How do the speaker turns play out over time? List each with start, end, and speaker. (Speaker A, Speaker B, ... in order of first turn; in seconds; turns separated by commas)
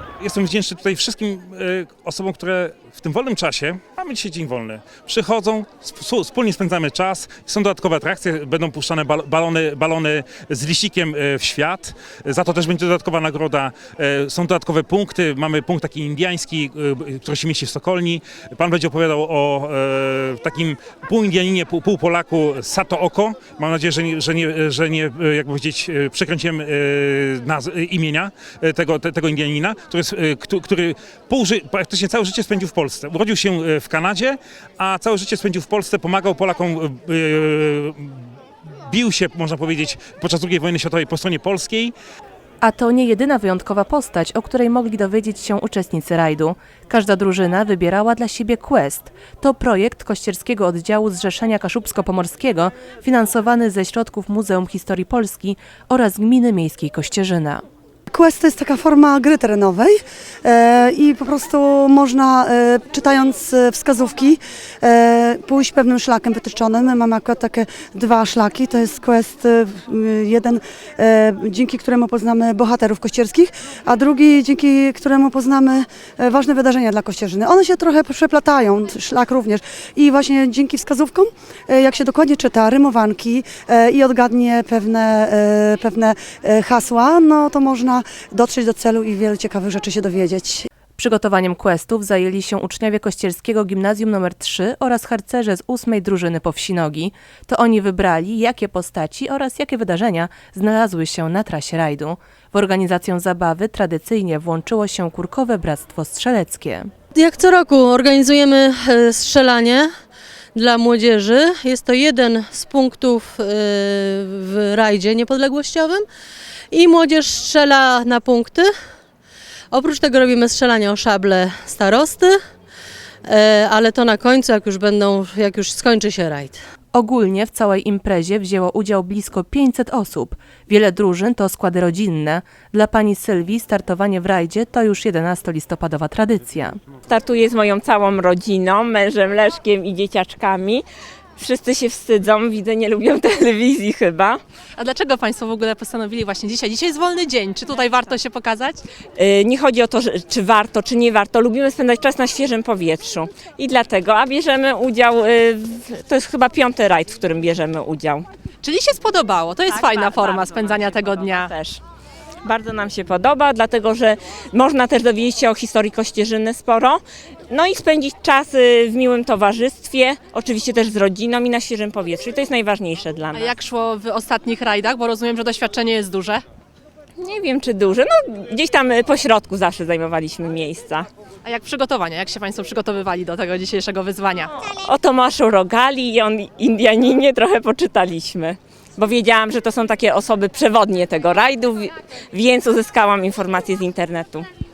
Speaker A: 0.2-38.2, Speaker A: 38.9-41.9, Speaker B: 42.6-57.6, Speaker C: 58.1-90.7, Speaker B: 91.0-106.9, Speaker D: 107.2-109.9, Speaker D: 110.5-116.0, Speaker D: 116.7-118.7, Speaker D: 119.7-122.4, Speaker D: 123.3-126.6, Speaker B: 126.9-136.8, Speaker E: 137.1-140.8, Speaker E: 141.4-144.4, Speaker F: 144.8-148.8, Speaker E: 149.2-158.3, Speaker F: 158.6-161.5, Speaker E: 159.7-161.8, Speaker E: 162.4-173.5, Speaker F: 173.3-176.4, Speaker E: 177.2-181.1, Speaker F: 181.4-184.6, Speaker E: 184.6-194.5